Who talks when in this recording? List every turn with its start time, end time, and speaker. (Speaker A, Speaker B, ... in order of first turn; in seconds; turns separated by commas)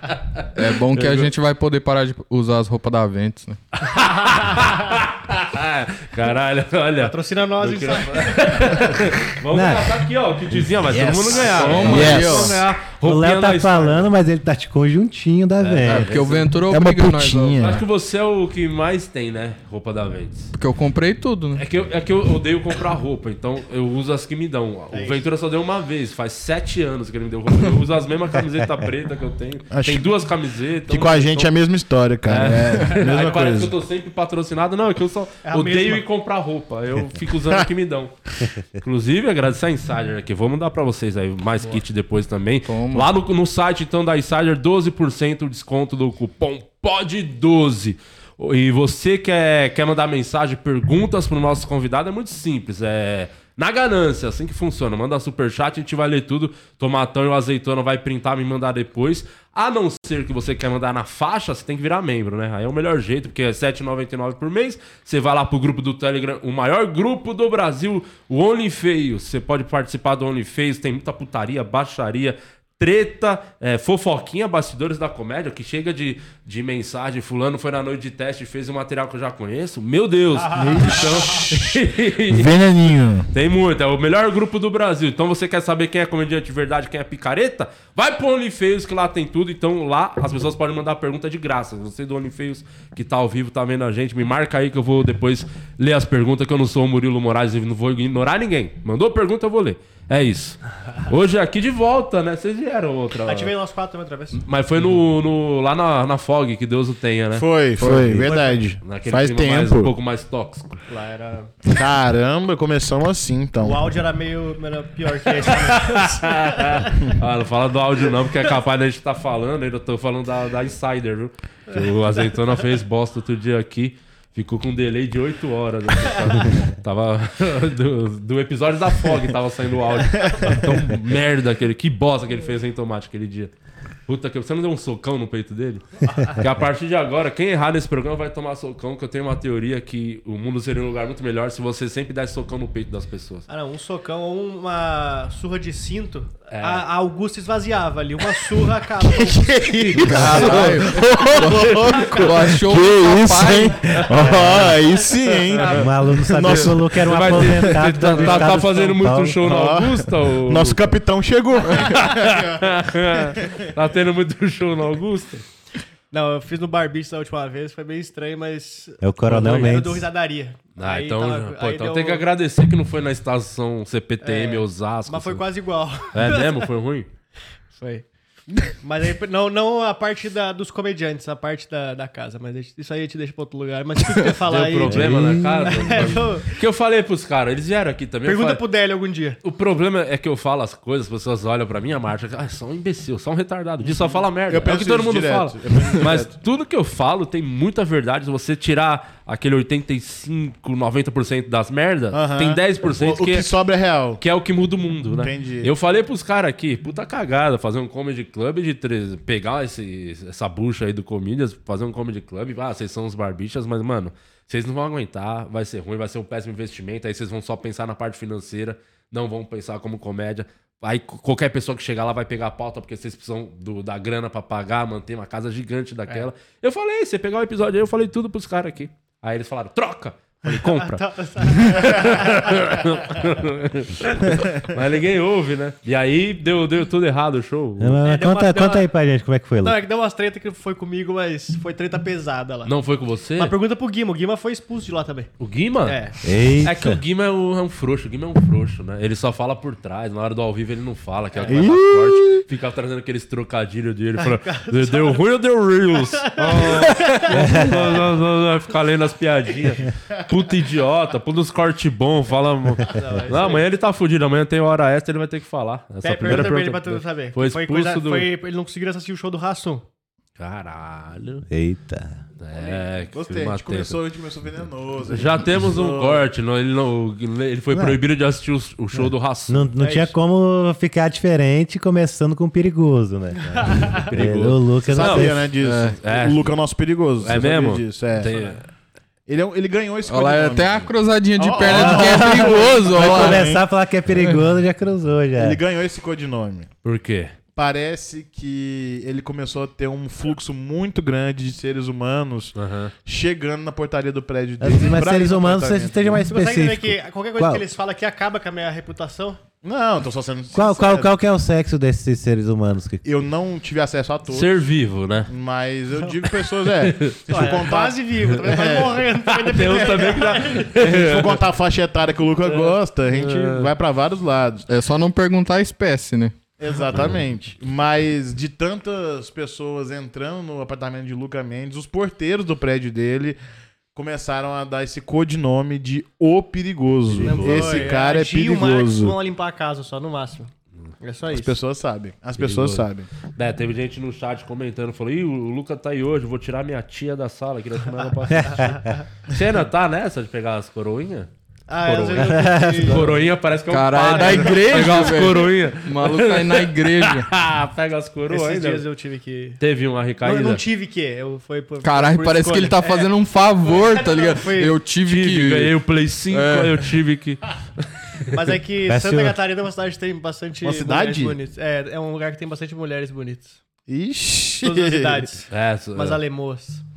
Speaker A: 0.3-1.3, Speaker B: 0.6-3.6, Speaker A: 3.8-14.1, Speaker C: 7.0-8.9, Speaker D: 9.5-10.0, Speaker E: 10.9-12.6, Speaker B: 11.2-12.6, Speaker C: 11.9-12.3, Speaker D: 13.0-16.1, Speaker A: 15.6-16.5, Speaker B: 15.8-17.8, Speaker E: 16.7-17.8, Speaker A: 17.6-20.5, Speaker B: 20.5-21.6, Speaker A: 21.6-31.5, Speaker C: 24.9-25.3, Speaker E: 29.7-30.1, Speaker E: 30.9-33.7, Speaker A: 32.2-38.1, Speaker C: 35.4-36.0, Speaker A: 38.7-82.6, Speaker B: 42.6-43.1, Speaker E: 80.5-81.5, Speaker E: 82.3-83.3, Speaker A: 83.3-103.5, Speaker C: 103.2-104.4, Speaker A: 104.4-107.5, Speaker E: 107.3-109.9, Speaker B: 107.8-108.3, Speaker D: 107.8-108.2, Speaker C: 108.3-108.6, Speaker A: 108.8-110.8, Speaker C: 110.9-111.5, Speaker E: 111.7-113.9, Speaker C: 113.6-117.1, Speaker A: 115.5-133.5, Speaker E: 130.3-130.9, Speaker A: 134.1-143.5, Speaker C: 143.5-150.2, Speaker A: 146.5-146.8, Speaker E: 149.1-158.6, Speaker A: 149.8-150.9, Speaker B: 150.1-153.9, Speaker A: 153.9-154.4, Speaker D: 154.1-154.8, Speaker A: 155.5-160.9, Speaker D: 155.6-159.4, Speaker E: 159.4-163.6, Speaker A: 161.7-165.4, Speaker C: 166.1-172.2, Speaker D: 169.0-170.1, Speaker A: 170.8-175.4, Speaker C: 174.2-176.7, Speaker A: 176.1-177.1, Speaker C: 177.7-178.0, Speaker C: 178.8-186.6, Speaker A: 184.4-188.6, Speaker D: 184.9-185.9, Speaker C: 188.2-189.4, Speaker A: 189.4-203.5, Speaker E: 193.8-196.3, Speaker E: 202.1-204.2, Speaker A: 204.2-238.0, Speaker E: 205.2-205.7, Speaker C: 230.5-233.2, Speaker D: 237.8-239.8, Speaker C: 238.0-238.9, Speaker C: 239.6-242.7, Speaker A: 242.6-243.5, Speaker C: 243.3-245.3, Speaker A: 245.4-246.0, Speaker C: 245.8-246.1, Speaker D: 246.2-247.0, Speaker A: 246.6-268.3, Speaker C: 251.3-251.7, Speaker E: 251.5-252.1, Speaker C: 254.2-255.3, Speaker C: 256.0-257.7, Speaker D: 257.3-258.0, Speaker C: 262.9-263.6, Speaker C: 266.0-269.8, Speaker A: 270.4-271.5, Speaker D: 271.5-272.2, Speaker A: 272.4-274.0, Speaker C: 272.5-272.9, Speaker E: 273.1-276.3, Speaker A: 275.1-279.6, Speaker D: 277.7-278.0, Speaker D: 278.9-285.5, Speaker C: 279.8-280.1, Speaker C: 283.5-283.9, Speaker A: 284.1-285.3, Speaker E: 284.9-288.3, Speaker B: 285.6-286.0, Speaker A: 286.0-286.6, Speaker A: 287.2-288.6, Speaker C: 288.2-288.6, Speaker E: 289.3-293.6, Speaker B: 290.1-293.5, Speaker D: 291.6-295.6, Speaker E: 295.4-296.7, Speaker A: 296.8-297.3, Speaker E: 297.5-306.2, Speaker A: 302.6-302.9, Speaker D: 304.6-307.6, Speaker C: 306.3-309.4, Speaker E: 309.6-311.1, Speaker D: 310.5-313.0, Speaker E: 313.0-314.5, Speaker A: 314.3-315.3, Speaker E: 315.3-319.0, Speaker A: 316.6-317.2, Speaker C: 317.3-320.7, Speaker A: 319.3-321.4, Speaker E: 320.8-324.7, Speaker A: 322.4-323.7, Speaker B: 324.7-326.3, Speaker E: 326.6-333.4, Speaker E: 333.9-339.2, Speaker A: 337.1-337.9, Speaker C: 337.2-341.6, Speaker E: 341.3-343.1, Speaker A: 342.4-351.3, Speaker D: 348.3-349.0, Speaker C: 351.7-353.1, Speaker A: 351.8-358.8, Speaker D: 352.1-353.1, Speaker B: 353.7-357.3, Speaker C: 354.0-355.1, Speaker C: 358.3-359.6, Speaker A: 359.6-360.6, Speaker C: 360.2-363.1, Speaker B: 361.8-365.7, Speaker C: 363.6-364.8, Speaker A: 365.0-368.4, Speaker B: 366.3-367.0, Speaker C: 368.3-373.6, Speaker D: 368.9-369.4, Speaker E: 370.6-371.4, Speaker E: 373.9-375.2, Speaker C: 374.6-376.8, Speaker A: 375.5-376.2